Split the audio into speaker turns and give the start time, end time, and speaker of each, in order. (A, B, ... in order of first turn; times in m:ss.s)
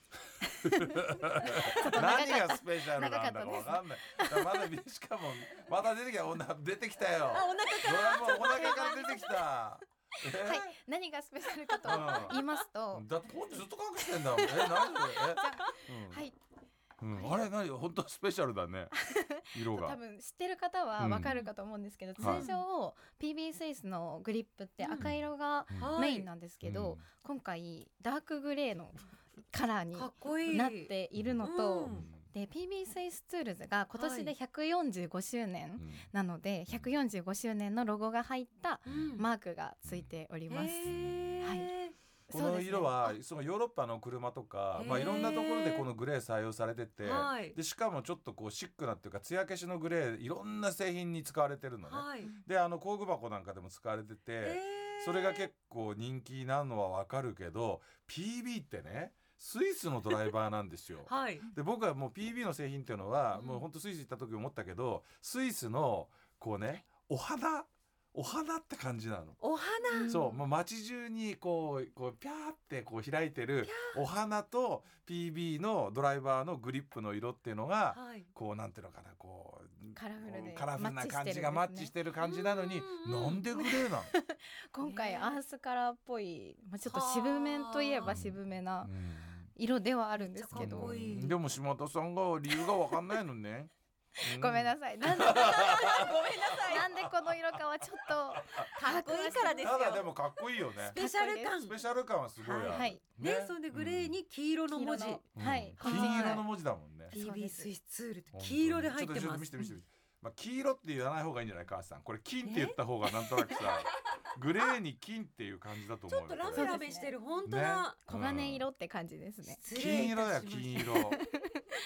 0:00.4-0:04.7 A
0:00.6-0:10.7 B
0:07.3-0:09.0 C
0:08.2-0:09.6 A
0:10.4-0:13.1 A
0:11.7-0:12.5 C
0:11.8-0:16.2 B
0:14.2-0:16.4 A
0:17.0-0:18.9 B
0:17.1-0:17.4 A
0:18.9-0:41.8 A
0:19.5-0:20.0 B
0:21.0-0:21.3 B
0:21.2-0:21.5 C
0:22.2-0:22.6 C
0:22.2-0:22.5 B
0:24.8-0:25.1 C
0:25.0-0:26.0 B
0:25.8-0:26.3 C
0:26.6-0:27.0 B
0:29.9-0:32.1 C
0:31.2-0:32.2 B
0:34.0-0:34.3 C
0:35.8-0:36.0 B
0:38.9-0:39.2 B
0:38.9-0:39.3 C
0:40.5-0:41.9 C
0:40.9-0:41.3 B
0:42.3-0:43.2 A
0:42.3-1:09.4 B
0:44.8-0:45.9 C
0:47.0-0:47.6 C
0:51.9-0:52.3 C
0:54.4-0:55.5 C
1:01.1-1:01.5 C
1:03.3-1:03.6 C
1:09.4-1:10.4 C
1:10.0-1:24.1 B
1:13.6-1:14.0 C
1:17.9-1:18.3 C
1:19.9-1:21.9 A
1:22.2-1:23.5 C
1:23.6-1:28.9 A
1:24.8-1:25.4 C
1:26.9-1:28.2 C
1:28.1-1:29.5 B
1:29.6-1:31.0 A
1:30.2-1:31.4 C
1:30.6-1:33.7 B
1:34.2-1:39.8 A
1:34.2-1:41.0 B
1:35.1-1:37.0 C
1:38.8-1:40.1 C
1:40.8-1:41.8 C
1:40.8-1:41.6 A
1:41.5-1:44.2 B
1:42.5-1:43.0 A
1:42.5-1:46.4 C
1:44.7-1:46.5 A
1:45.4-1:47.2 B
1:47.1-1:47.7 A
1:47.1-1:49.7 C
1:48.3-1:56.8 B
1:52.4-1:53.6 C
1:56.1-1:58.0 C
1:56.5-1:57.1 A
1:57.5-1:58.7 B
1:58.1-1:59.6 A
1:59.5-2:01.2 C
1:59.7-2:01.2 B
2:01.1-2:01.6 A